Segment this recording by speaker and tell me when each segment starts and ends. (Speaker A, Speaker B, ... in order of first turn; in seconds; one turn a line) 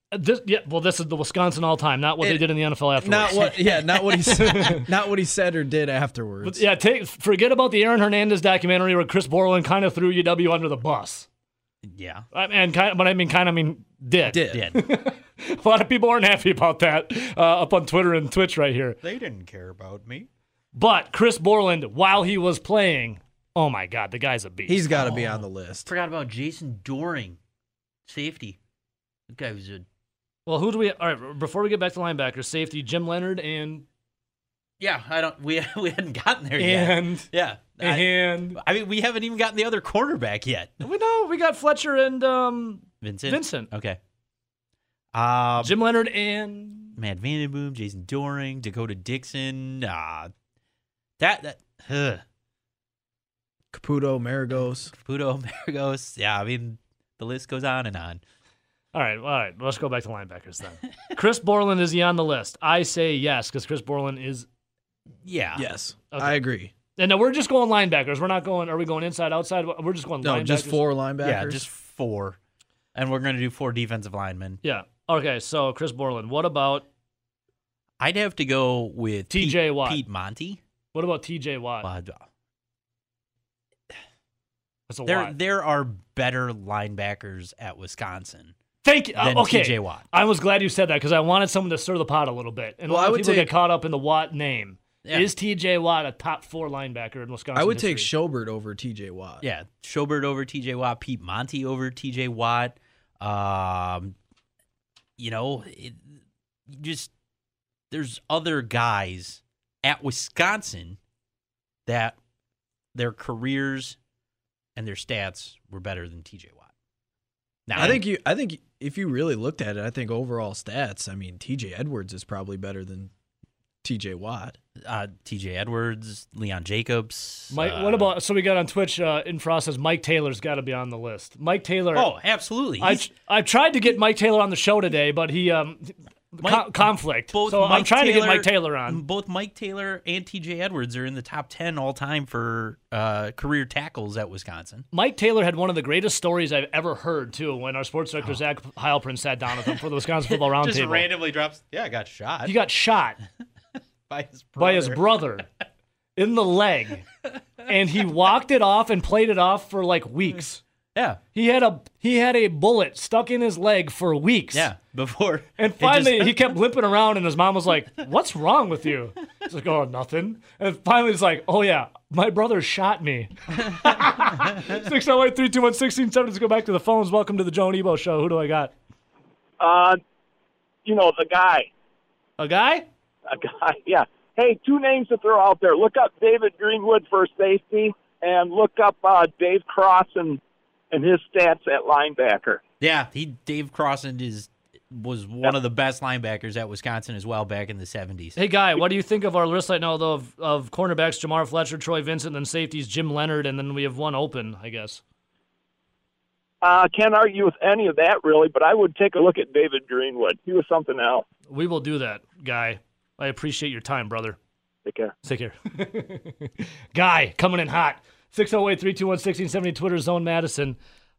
Speaker A: 0.1-4.9
Speaker B: 2.2-2.5
Speaker B: 3.0-6.6
Speaker A: 6.4-11.3
Speaker C: 11.8-12.3
Speaker A: 12.3-19.0
Speaker B: 14.3-14.7
Speaker C: 14.5-14.8
Speaker C: 19.0-20.3
Speaker A: 20.7-24.9
Speaker B: 24.7-25.9
Speaker C: 24.9-27.4
Speaker C: 28.1-28.6
Speaker C: 29.3-29.9
Speaker A: 30.5-33.9
Speaker C: 34.8-40.8
Speaker A: 36.6-37.3
Speaker A: 37.8-38.6
Speaker A: 40.8-43.7
Speaker C: 43.0-44.0
Speaker C: 45.1-45.8
Speaker A: 45.6-47.0
Speaker C: 47.0-50.3
Speaker C: 51.2-52.2
Speaker B: 53.7-54.9
Speaker C: 54.9-58.2
Speaker A: 58.9-64.5
Speaker C: 65.2-65.7
Speaker B: 65.6-66.7
Speaker A: 66.1-66.4
Speaker A: 67.0-70.8
Speaker B: 70.2-71.7
Speaker C: 71.2-72.4
Speaker C: 73.0-74.6
Speaker A: 74.6-76.9
Speaker C: 78.0-80.6
Speaker A: 79.3-80.0
Speaker A: 80.9-81.9
Speaker C: 81.8-82.3
Speaker A: 84.9-85.3
Speaker C: 85.1-88.5
Speaker A: 88.8-98.1
Speaker C: 89.2-90.0
Speaker B: 92.9-93.5
Speaker B: 97.5-99.5
Speaker C: 99.4-104.2
Speaker C: 105.2-106.0
Speaker C: 106.7-107.1
Speaker C: 107.9-111.0
Speaker C: 111.9-112.2
Speaker C: 112.9-114.0
Speaker C: 114.8-116.7
Speaker C: 117.7-118.0
Speaker B: 117.8-123.1
Speaker B: 123.8-124.6
Speaker C: 124.8-128.1
Speaker A: 127.5-132.1
Speaker C: 131.9-133.0
Speaker A: 132.8-139.0
Speaker C: 136.4-144.9
Speaker A: 144.9-151.1
Speaker C: 150.3-152.6
Speaker A: 152.4-153.2
Speaker C: 154.1-155.1
Speaker A: 154.6-155.5
Speaker A: 156.2-157.1
Speaker A: 157.7-160.6
Speaker C: 160.9-161.2
Speaker A: 161.3-164.7
Speaker C: 164.5-166.4
Speaker A: 165.6-178.7
Speaker D: 179.6-180.0
Speaker D: 180.8-181.7
Speaker A: 182.4-182.9
Speaker D: 183.3-190.4
Speaker D: 190.9-192.6
Speaker C: 192.8-198.4
Speaker A: 198.4-205.0
Speaker D: 206.6-211.3
Speaker A: 211.5-214.4
Speaker D: 214.9-215.1
Speaker A: 215.2-220.8